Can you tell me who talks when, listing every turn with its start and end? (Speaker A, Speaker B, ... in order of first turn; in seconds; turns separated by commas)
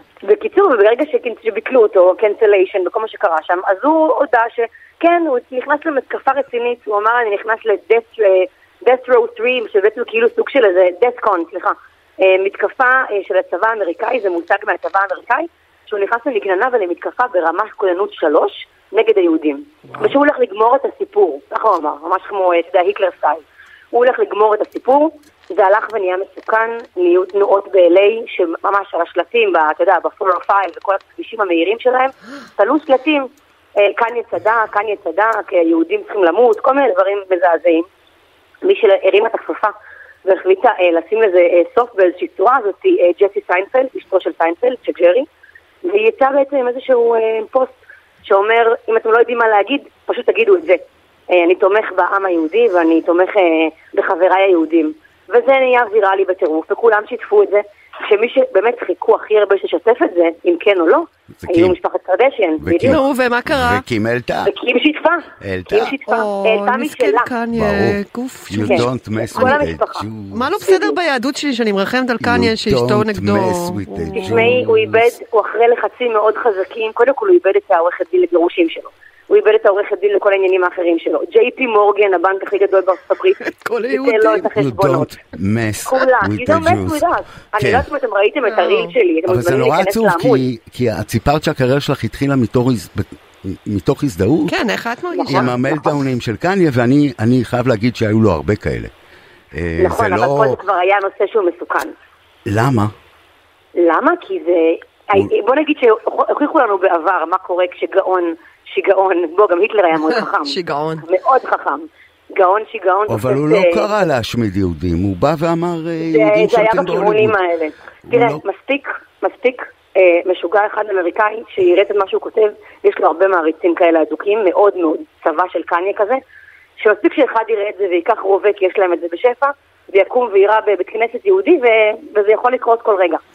Speaker A: 0.2-37.9, Speaker A: 38.6-39.7, Speaker A: 40.2-45.3, Speaker A: 45.8-63.0, Speaker B: 61.4-61.8, Speaker B: 62.6-64.5, Speaker C: 62.8-63.8, Speaker A: 64.4-67.3, Speaker B: 65.4-66.0, Speaker C: 66.1-69.6, Speaker B: 67.5-68.0, Speaker B: 68.5-70.5, Speaker A: 68.6-70.1, Speaker C: 70.3-74.5, Speaker A: 70.6-71.0, Speaker B: 72.2-75.0, Speaker A: 74.2-85.1, Speaker C: 83.4-84.5, Speaker B: 84.5-87.0, Speaker A: 85.8-90.5, Speaker B: 87.6-87.9, Speaker C: 88.5-88.9, Speaker B: 89.3-94.5, Speaker C: 94.5-95.5, Speaker A: 95.1-95.9, Speaker B: 95.3-98.9, Speaker B: 99.5-100.6, Speaker A: 99.8-101.9, Speaker B: 102.5-102.9, Speaker A: 103.8-113.9, Speaker C: 110.3-111.0, Speaker B: 113.1-117.4, Speaker A: 116.0-126.2, Speaker B: 118.1-118.4, Speaker A: 126.8-133.2